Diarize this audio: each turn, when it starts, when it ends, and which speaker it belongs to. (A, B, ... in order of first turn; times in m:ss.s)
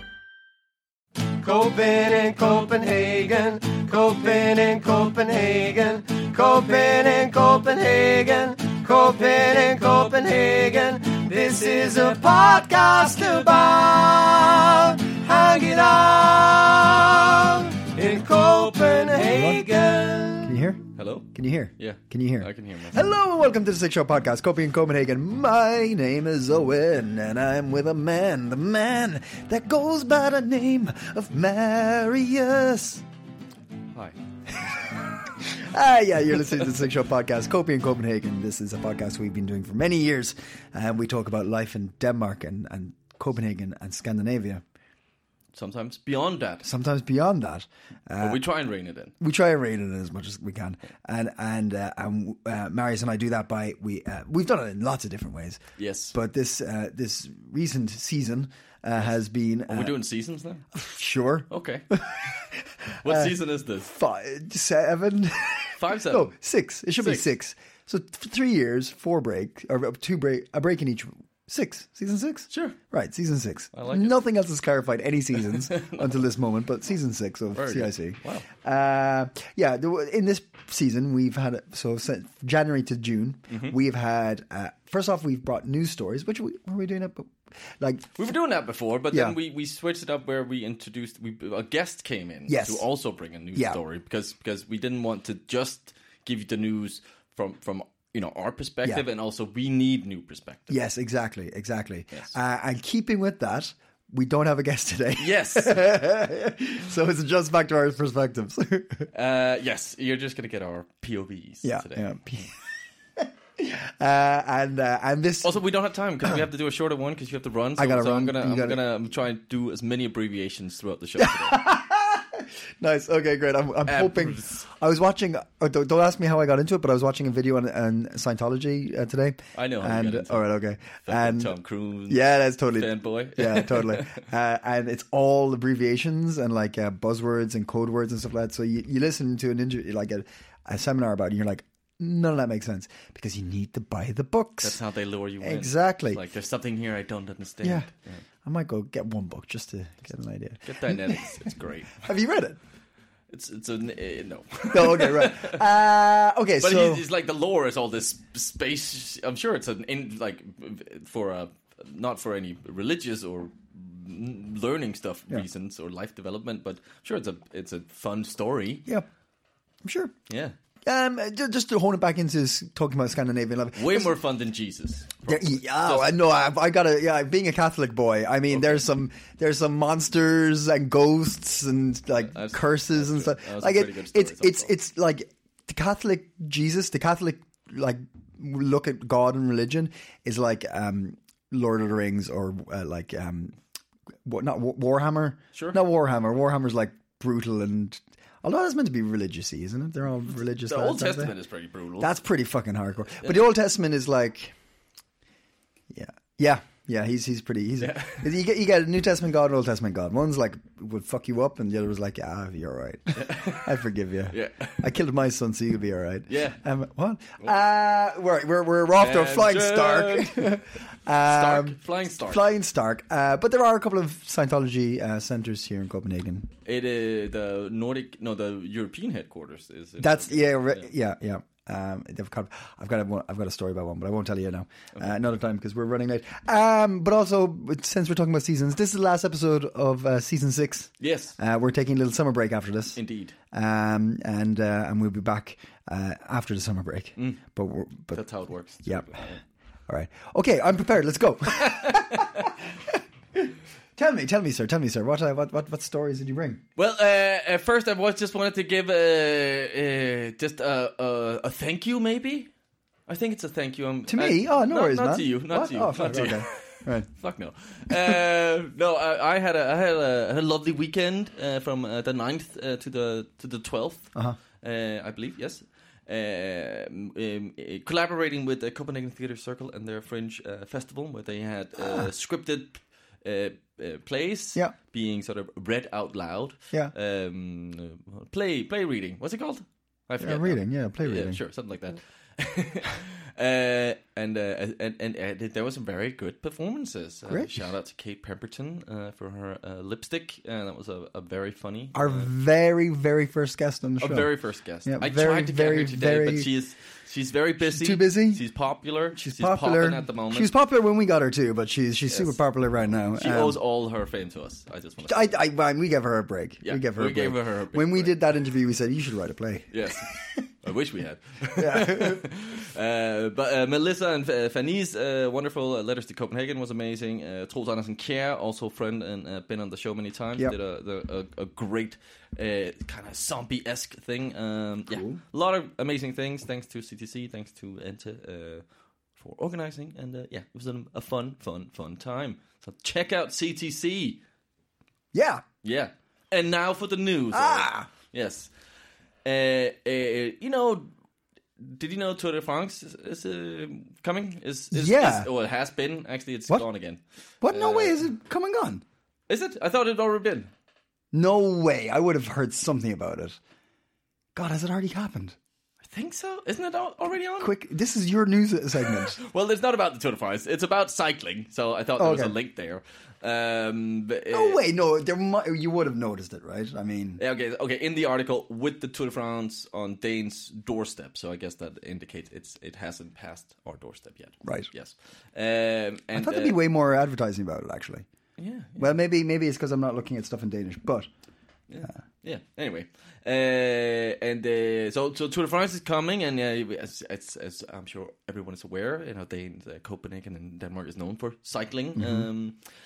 0:01.4-0:20.5 A
0:19.2-0:19.7 B
0:20.4-0:33.0 B
0:21.0-0:23.0 C
0:35.4-0:44.6 B
0:45.5-0:46.7 C
0:46.6-0:48.4 B
0:48.2-0:49.1 C
0:49.2-0:55.6 B
0:55.8-0:56.2 C
0:56.1-1:00.0 B
0:59.7-1:00.6 C
1:00.7-1:03.3 B
1:01.5-1:01.9 C
1:03.0-1:03.9 C
1:03.8-1:28.2 B
1:05.8-1:06.3 C
1:07.0-1:07.3 C
1:12.5-1:12.8 C
1:13.7-1:14.2 C
1:15.7-1:16.0 C
1:17.6-1:18.5 C
1:23.5-1:23.8 C
1:28.2-1:40.8 C
1:29.1-1:29.4 B
1:32.5-1:32.8 B
1:33.6-1:33.8 B
1:40.7-1:49.1 B
1:45.2-1:45.9 C
1:49.1-1:52.2 C
1:51.6-1:52.5 B
1:53.2-1:55.6 B
1:55.4-2:01.6 C
1:57.8-1:58.8 B
2:01.2-2:11.6 B
2:03.9-2:04.6 C
2:09.6-2:14.2 C
2:12.1-2:24.8 B
2:24.6-2:28.2 C
2:25.4-2:26.2 B
2:27.6-2:27.9 B
2:28.4-2:31.5 B
2:30.6-2:32.1 C
2:32.0-2:32.6 B
2:33.3-2:35.6 C
2:34.7-2:37.0 B
2:36.6-2:48.9 C
2:49.8-2:50.1 B
2:50.3-2:50.6 C
2:50.8-2:54.1 B
2:53.8-2:56.2 C
2:55.3-3:13.6 B
2:58.5-2:58.9 C
3:02.3-3:04.7 C
3:14.2-3:21.3 B
3:20.6-3:22.1 C
3:22.0-3:24.6 B
3:25.9-3:46.5 B
3:27.8-3:28.3 C
3:33.2-3:33.8 C
3:34.3-3:34.9 C
3:36.3-3:36.6 C
3:39.0-3:42.4 C
3:46.7-3:50.9 C
3:50.0-4:03.0 B
4:01.0-4:01.4 C
4:03.0-4:03.4 C
4:03.5-4:08.2 B
4:08.1-4:09.4 C
4:08.8-4:09.1 B
4:09.9-4:16.6 B
4:11.6-4:12.3 C
4:16.8-4:22.5 C
4:23.1-5:02.3 C
4:24.1-4:27.1 B
4:41.8-4:42.1 B
4:50.2-4:51.4 B
5:02.0-5:04.3 B
5:04.0-5:10.5 C
5:04.8-5:06.5 B
5:07.6-5:08.4 B
5:09.2-5:13.6 B
5:13.2-5:15.3 C
5:15.0-5:19.8 B
5:16.6-5:18.2 C
5:19.7-5:38.6 C
5:21.6-5:22.3 B
5:34.9-5:35.2 B
5:39.2-5:44.2 C
5:45.1-5:45.4 B
5:45.6-5:48.5 C
5:47.3-5:47.9 B
5:49.2-5:50.9 C
5:51.6-5:58.1 C
5:54.7-5:55.3 B
5:57.4-5:58.8 B
5:59.3-6:00.5 C
6:01.1-6:03.4 B
6:04.4-6:05.4 B
6:05.9-6:07.6 C
6:07.4-6:09.2 B
6:08.9-6:14.6 C
6:12.0-6:12.4 B
6:14.3-6:17.2 B
6:17.2-6:26.6 C
6:24.4-6:24.7 B
6:26.1-6:28.1 B
6:28.4-6:28.8 C
6:28.8-6:31.1 B
6:31.7-6:42.6 C
6:42.0-6:42.3 B